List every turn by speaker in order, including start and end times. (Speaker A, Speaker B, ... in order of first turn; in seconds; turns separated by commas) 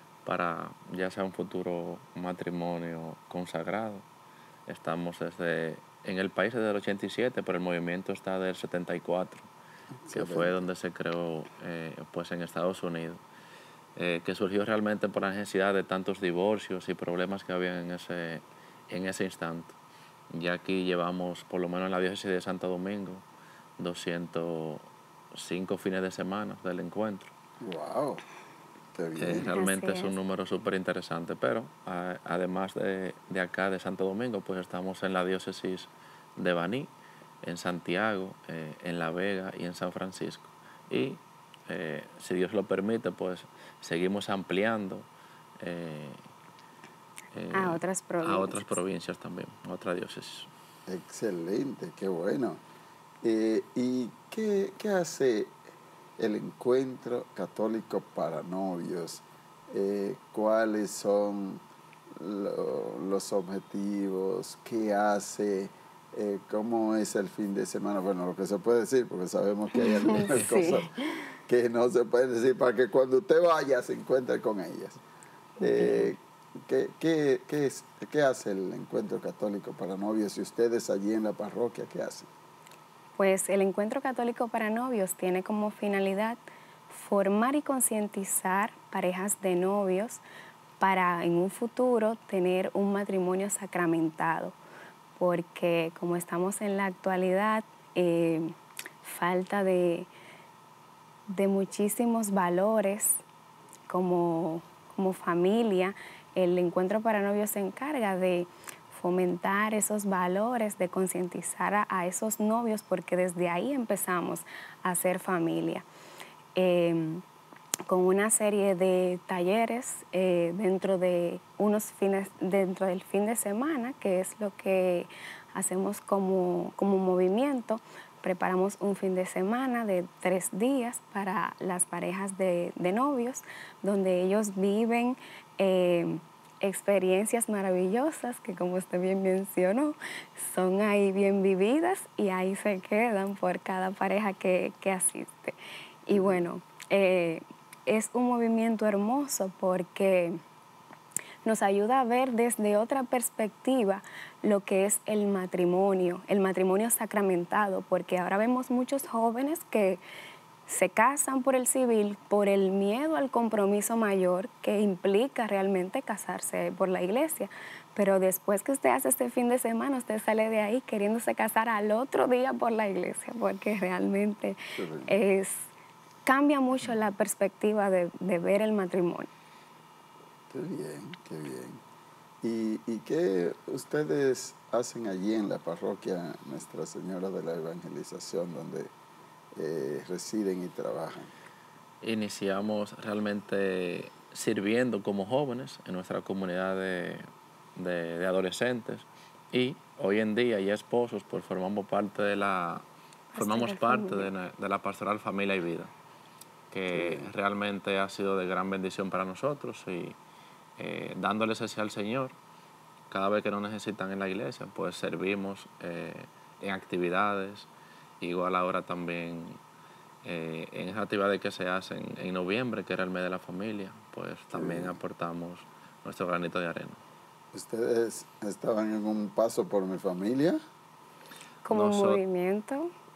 Speaker A: 0.2-4.0, Speaker A: 4.7-9.5, Speaker B: 10.0-10.6, Speaker A: 10.1-13.2, Speaker A: 13.9-19.7, Speaker A: 20.3-23.2, Speaker A: 23.8-27.3, Speaker B: 27.6-28.2, Speaker B: 28.9-29.5, Speaker A: 29.2-36.9, Speaker C: 29.5-30.1, Speaker A: 37.4-45.1, Speaker A: 45.6-46.2, Speaker A: 47.3-50.5, Speaker C: 47.5-48.8, Speaker B: 50.9-52.6, Speaker B: 53.2-55.5, Speaker B: 56.2-61.6, Speaker B: 62.1-70.9, Speaker C: 69.7-70.9, Speaker B: 71.5-75.0, Speaker B: 75.6-82.3, Speaker C: 75.6-76.0, Speaker C: 83.2-90.2, Speaker C: 90.8-94.5, Speaker C: 95.2-100.1, Speaker C: 101.3-103.2, Speaker C: 103.9-115.8, Speaker C: 116.5-117.2, Speaker C: 117.9-150.4, Speaker B: 146.1-146.4, Speaker C: 151.4-160.0, Speaker C: 160.7-175.7, Speaker B: 174.8-175.2, Speaker C: 176.2-179.3, Speaker B: 180.5-181.8, Speaker B: 182.4-188.9, Speaker B: 189.5-191.3, Speaker A: 192.0-202.8, Speaker C: 203.3-204.3, Speaker A: 203.3-205.9, Speaker A: 206.7-210.2, Speaker B: 206.9-207.3, Speaker A: 210.8-212.3, Speaker A: 213.1-217.7, Speaker A: 218.2-219.6, Speaker A: 220.2-227.0, Speaker B: 224.5-225.0, Speaker B: 227.5-230.6, Speaker C: 231.7-232.9, Speaker A: 231.7-232.2